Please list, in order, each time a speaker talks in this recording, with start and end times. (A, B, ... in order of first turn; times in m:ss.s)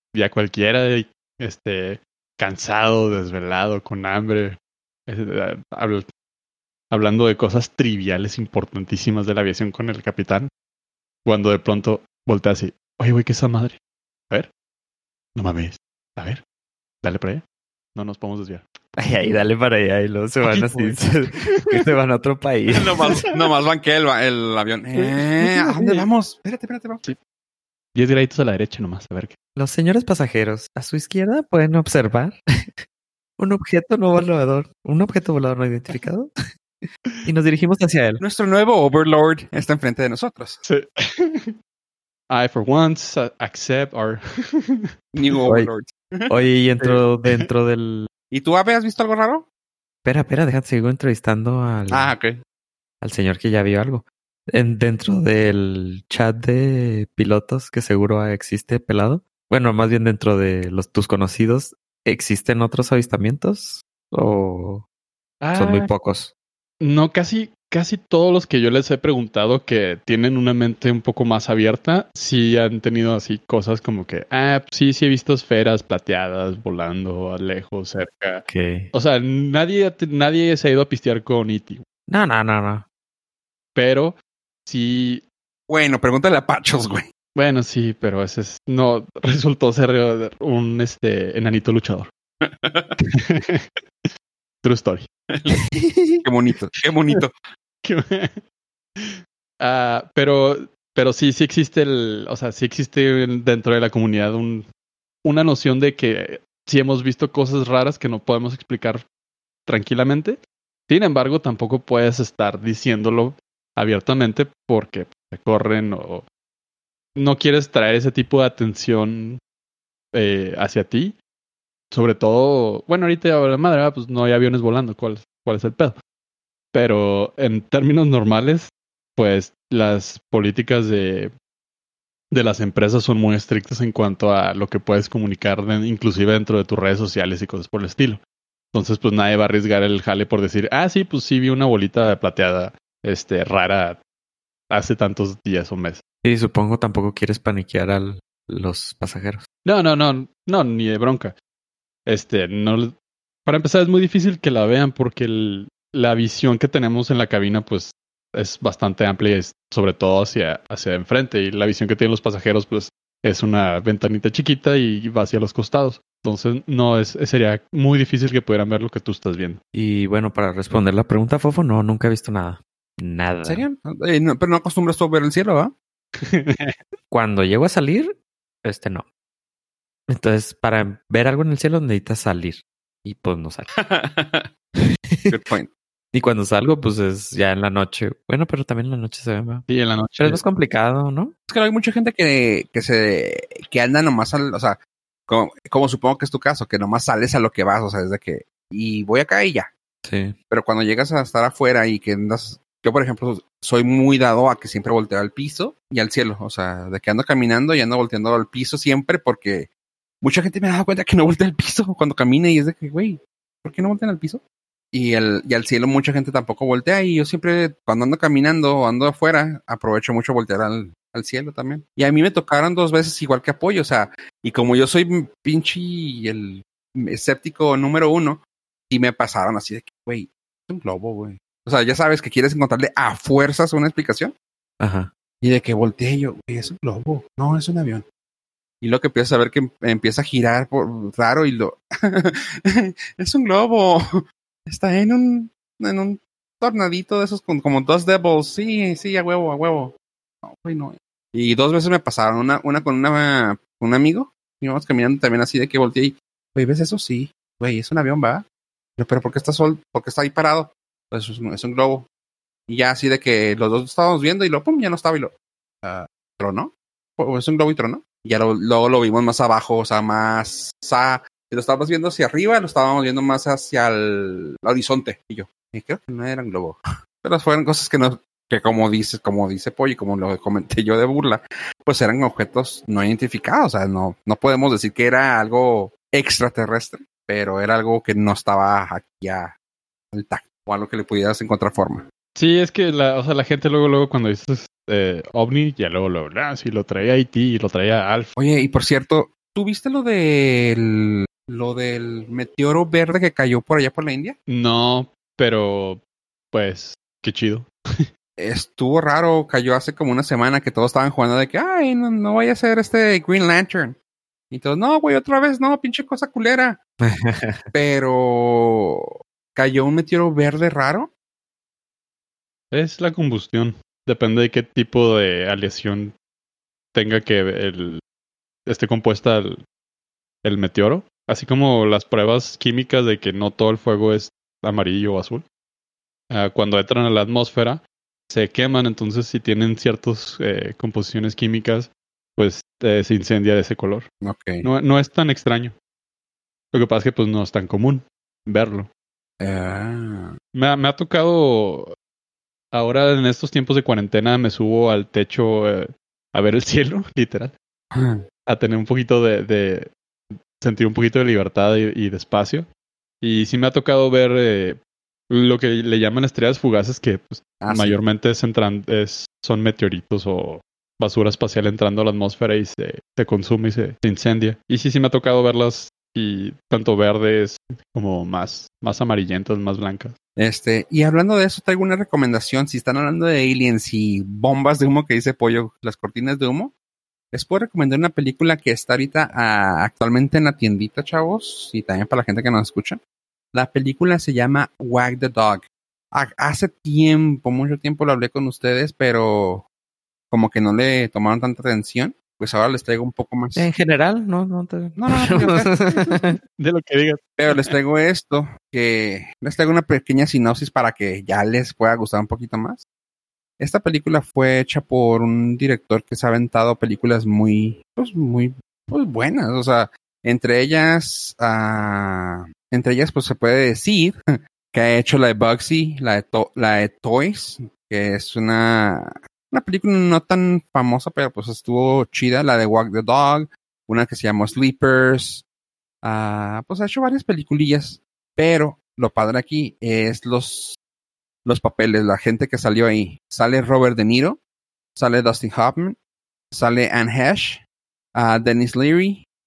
0:00.1-0:06.0 A
0:06.9-0:10.5 A
0:11.2-0:13.8 A
0:15.4-0:16.4 A
0:17.0-0:17.4 A
0:17.9-0:18.6 A
0:19.0-0:23.2 B
0:20.4-0:21.9 A
0:22.8-0:27.1 C
0:23.0-0:23.4 A
0:25.0-0:26.0 A
0:27.9-0:29.3 A
0:29.6-0:32.4 B
0:33.4-0:36.3 B
0:37.2-0:38.2 B
0:38.2-0:40.6 C
0:40.6-0:41.5 A
0:42.3-0:44.9 A
0:45.1-0:46.3 C
0:46.3-0:48.1 B
0:48.3-0:49.4 C
0:50.0-0:52.1 B
0:51.9-0:52.4 C
0:53.0-1:04.8 B
1:05.4-1:05.9 A
1:05.5-1:06.3 B
1:06.8-1:21.8 A
1:18.5-1:18.9 B
1:22.1-1:22.8 B
1:23.8-1:24.1 A
1:24.6-1:25.2 A
1:25.7-1:27.1 C
1:27.4-1:32.1 A
1:32.4-1:32.9 C
1:33.1-1:34.1 A
1:34.6-1:35.0 A
1:35.3-1:35.6 C
1:35.8-1:36.2 B
1:36.2-1:37.4 C
1:37.8-1:38.4 A
1:39.0-1:44.6 A
1:45.2-1:49.0 A
1:49.7-1:56.2 A
1:57.2-1:59.4 A
2:00.1-2:01.2 A
2:01.9-2:05.9 A
2:06.7-2:11.3 A
2:12.3-2:18.2 A
2:18.7-2:24.0 A
2:24.7-2:26.0 A
2:26.2-2:29.4 B
2:29.6-2:31.3 A
2:32.0-2:32.9 A
2:33.4-2:49.6 A
2:49.7-2:53.6 B
2:53.4-2:55.7 C
2:56.2-2:56.8 A
2:57.1-2:59.0 B
3:00.1-3:03.7 B
3:03.8-3:04.5 C
3:05.3-3:05.7 C
3:06.1-3:09.6 B
3:09.7-3:10.4 A
3:10.2-3:11.3 B
3:11.5-3:19.7 C
3:20.0-3:20.3 B
3:20.5-3:29.7 C
3:30.2-3:34.4 C
3:34.9-3:54.3 C
3:54.8-3:55.1 B
3:55.4-3:58.0 C
3:58.8-4:18.4 C
4:19.0-4:22.1 C
4:22.7-4:49.5 C
4:50.1-4:52.0 C
4:52.4-4:58.3 A
4:58.4-5:04.4 C
5:04.5-5:06.0 A
5:06.5-5:08.0 A
5:08.4-5:14.0 C
5:14.5-5:16.8 C
5:17.0-5:17.7 B
5:17.7-5:21.1 C
5:22.7-5:26.1 A
5:26.9-5:28.0 A
5:28.6-5:29.6 A
5:30.4-5:35.4 A
5:36.3-5:44.0 A
5:44.2-5:44.7 C
5:44.6-5:45.7 A
5:46.7-5:48.9 A
5:49.4-5:50.3 C
5:50.5-5:51.9 A
5:52.7-5:57.5 A
5:57.9-5:58.2 C
5:58.4-5:59.9 A
6:00.6-6:02.7 A
6:03.2-6:04.8 A
6:05.3-6:20.1 A
6:07.6-6:08.0 C
6:20.4-6:26.7 C
6:27.3-6:33.0 C
6:33.5-6:39.6 C
6:40.3-6:43.7 C
6:43.6-6:46.3 B
6:45.0-6:46.1 C
6:46.6-6:47.7 A
6:47.4-6:52.8 C
6:53.6-7:15.4 C
7:16.0-7:20.8 C
7:21.4-7:24.4 C
7:25.0-7:26.0 C
7:26.5-7:27.6 C
7:28.1-7:29.2 C